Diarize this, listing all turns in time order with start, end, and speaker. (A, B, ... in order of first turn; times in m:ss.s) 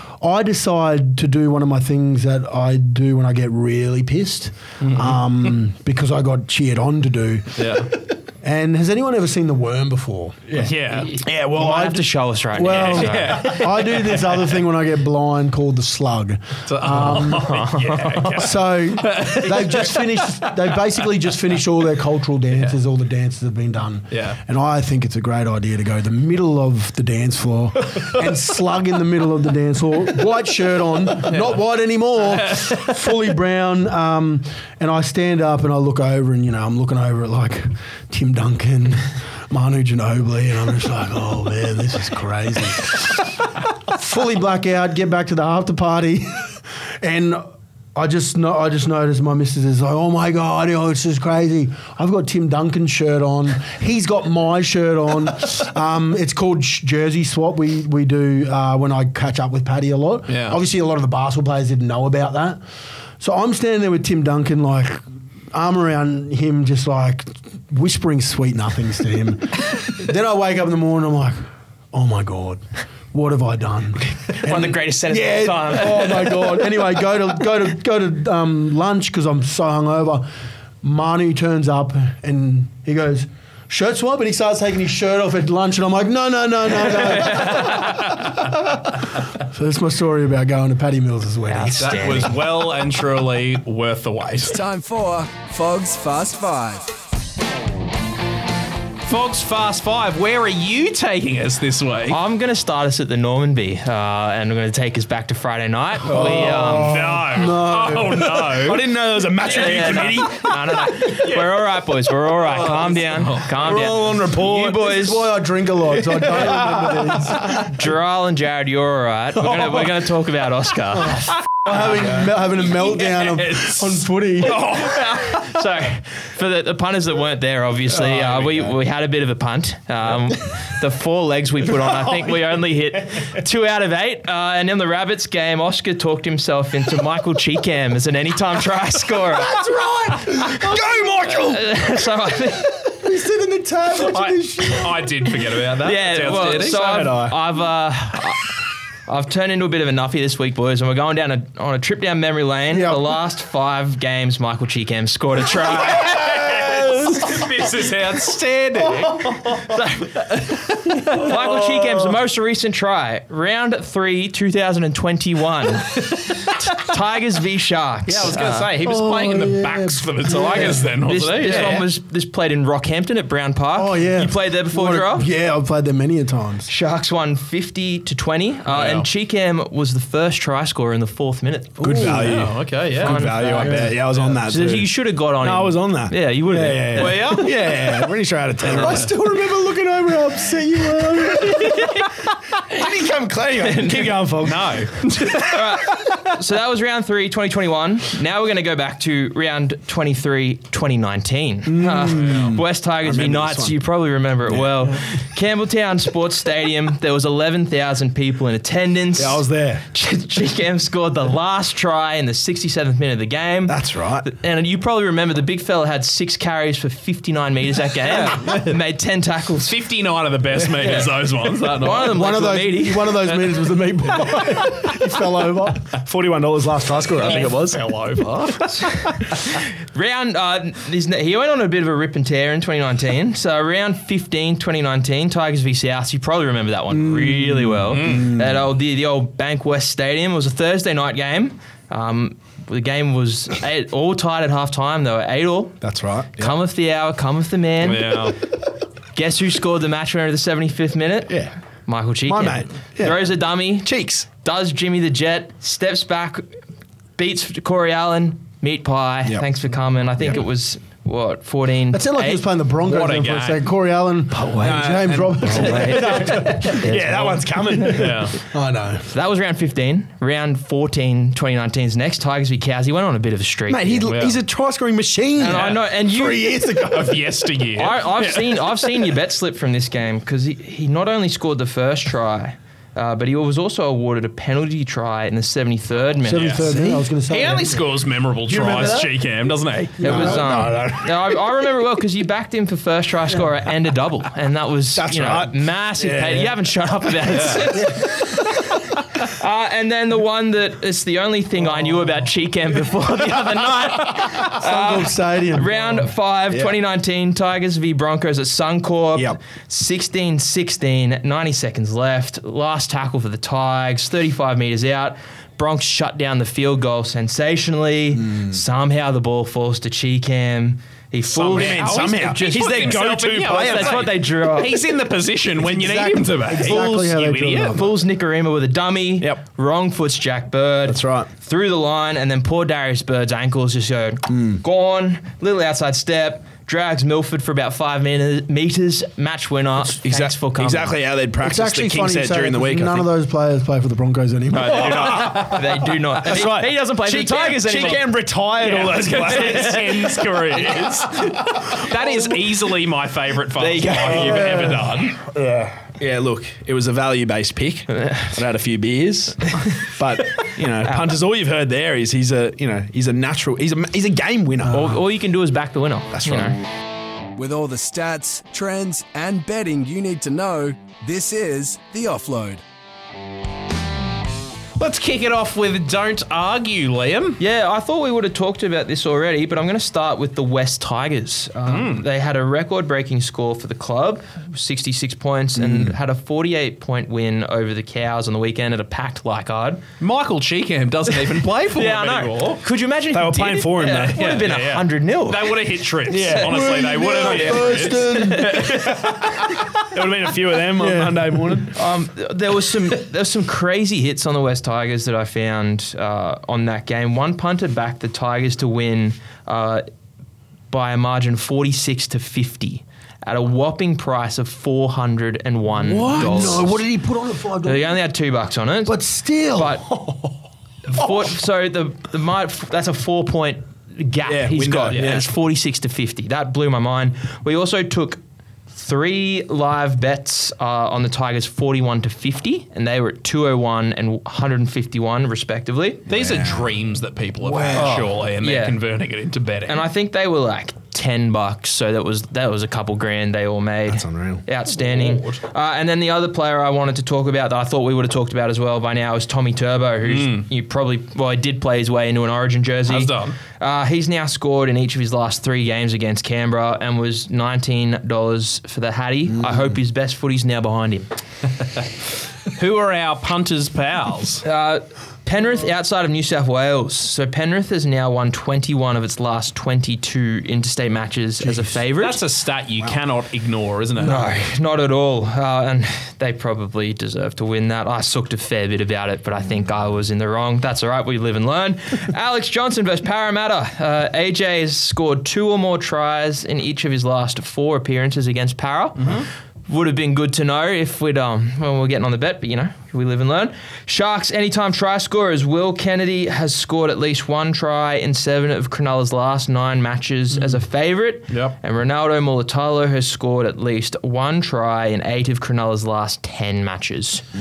0:00.2-0:43.3 A
0:04.8-0:05.2 B
0:07.6-0:07.9 B
0:10.5-0:11.2 B
0:11.1-0:13.7 C
0:11.2-0:11.8 D
0:12.6-0:14.6 B
0:16.6-0:21.0 B
0:24.1-0:24.4 B
0:32.3-0:32.9 B
0:43.8-0:47.4 A
0:47.9-1:02.6 A
1:00.3-1:00.6 B
1:03.2-1:20.3 A
1:14.3-1:16.6 C
1:20.8-1:32.3 A
1:27.7-1:28.1 B
1:31.5-1:32.4 C
1:31.7-1:34.6 B
1:34.4-1:37.0 E
1:39.0-1:42.2 B
1:42.1-1:47.0 C
1:46.1-1:48.6 A
1:46.1-1:48.8 B
1:48.4-1:50.8 D
1:49.4-1:55.3 C
1:51.0-1:51.6 B
1:52.3-1:53.7 B
1:53.5-1:55.0 D
1:54.2-1:57.6 A
1:56.3-1:57.6 B
1:57.6-2:01.4 C
2:01.0-2:04.7 A
2:03.0-2:05.6 B
2:04.6-2:19.7 C
2:19.5-2:20.9 A
2:20.5-2:21.8 D
2:21.3-2:22.9 C
2:22.8-2:25.1 A
2:24.0-2:27.0 B
2:25.8-2:28.5 C
2:26.4-2:27.4 D
2:29.0-2:36.5 C
2:32.7-2:33.1 A
2:36.0-2:39.7 B
2:36.5-2:36.8 A
2:39.5-2:48.7 C
2:40.8-2:41.3 B
2:48.0-2:51.9 B
2:48.8-2:50.8 A
2:50.6-2:55.3 C
2:51.4-2:51.8 D
2:53.7-2:56.7 A
2:56.7-3:02.4 C
2:58.7-2:59.1 B
3:01.8-3:02.4 A
3:01.8-3:11.9 D
3:02.1-3:03.4 B
3:03.0-3:03.9 C
3:03.6-3:03.9 A
3:04.4-3:07.5 C
3:06.9-3:07.6 B
3:08.6-3:09.1 B
3:08.6-3:09.5 A
3:10.3-3:11.7 A
3:12.7-3:14.8 D
3:13.6-3:14.3 C
3:14.4-3:16.0 B
3:15.2-3:39.7 C
3:21.6-3:23.8 D
3:24.4-3:25.1 D
3:29.2-3:29.8 D
3:33.7-3:34.3 D
3:38.0-3:38.8 B
3:39.6-3:42.2 B
3:40.8-3:41.1 C
3:41.6-3:43.3 C
3:42.0-3:45.9 A
3:46.0-3:47.8 D
3:47.2-3:49.1 B
3:48.8-4:05.8 C
3:57.2-3:58.4 D
3:57.9-3:58.3 B
4:05.8-4:06.6 D
4:06.4-4:08.3 C
4:07.8-4:08.4 B
4:09.1-4:16.5 C
4:11.3-4:11.5 D
4:12.3-4:14.3 D
4:17.2-4:22.4 C
4:21.9-4:26.8 A
4:22.8-4:23.6 B
4:24.5-4:28.2 D
4:25.4-4:28.0 C
4:27.7-4:29.1 A
4:27.8-4:28.3 B
4:29.1-4:34.1 C
4:33.7-4:36.9 D
4:34.1-4:34.4 B
4:35.4-4:36.7 C
4:35.4-4:35.8 B
4:36.1-4:37.1 A
4:36.9-4:38.7 B
4:37.7-4:47.0 C
4:46.2-4:47.8 A
4:46.3-4:46.7 B
4:47.3-4:50.4 B
4:48.5-4:49.1 A
4:50.0-4:50.9 A
4:50.0-5:24.8 C
4:50.0-4:51.1 D
4:54.9-4:56.6 D
4:57.3-4:57.7 B
5:04.4-5:06.0 A
5:06.5-5:06.8 D
5:18.2-5:18.6 D
5:21.3-5:24.2 D
5:21.3-5:27.8 B
5:25.6-5:27.9 A
5:26.6-5:27.0 C
5:27.7-5:40.9 C
5:30.8-5:31.3 D
5:34.3-5:34.6 D
5:39.8-5:43.1 D
5:41.4-5:45.4 A
5:44.5-5:45.6 B
5:44.6-5:50.8 D
5:45.2-5:48.1 C
5:48.6-5:55.2 B
5:49.2-5:52.0 C
5:53.6-5:54.9 C
5:53.8-6:05.0 D
6:00.8-6:01.1 C
6:04.7-6:06.6 C
6:06.1-6:06.6 D
6:07.3-6:12.6 E
6:14.8-6:17.4 B
6:17.4-6:29.8 C
6:21.6-6:22.0 B
6:25.6-6:25.9 D
6:30.0-6:32.6 B
6:31.7-6:35.6 C
6:33.1-6:34.4 D
6:34.1-6:39.5 B
6:36.1-6:38.0 D
6:36.4-6:38.8 A
6:38.0-6:38.6 C
6:39.7-6:41.8 D
6:40.8-6:41.7 A
6:41.7-6:49.8 C
6:50.7-6:56.8 C
6:55.7-6:58.0 A
6:57.6-6:59.0 C
6:58.8-7:00.3 A
6:59.6-6:59.9 C
7:00.9-7:16.0 C
7:04.2-7:05.3 D
7:04.9-7:05.2 B
7:16.1-7:19.8 B
7:16.1-7:16.7 D
7:17.4-7:18.0 A
7:17.7-7:18.8 C
7:19.7-7:41.1 C
7:23.9-7:24.4 D
7:24.8-7:25.4 B
7:30.0-7:30.5 B
7:32.9-7:33.4 B
7:42.5-7:44.4 B
7:44.4-7:52.2 C
7:51.4-7:51.7 A
7:52.0-7:54.3 B
7:54.0-8:27.2 C
8:09.0-8:09.2 B
8:21.3-8:21.6 B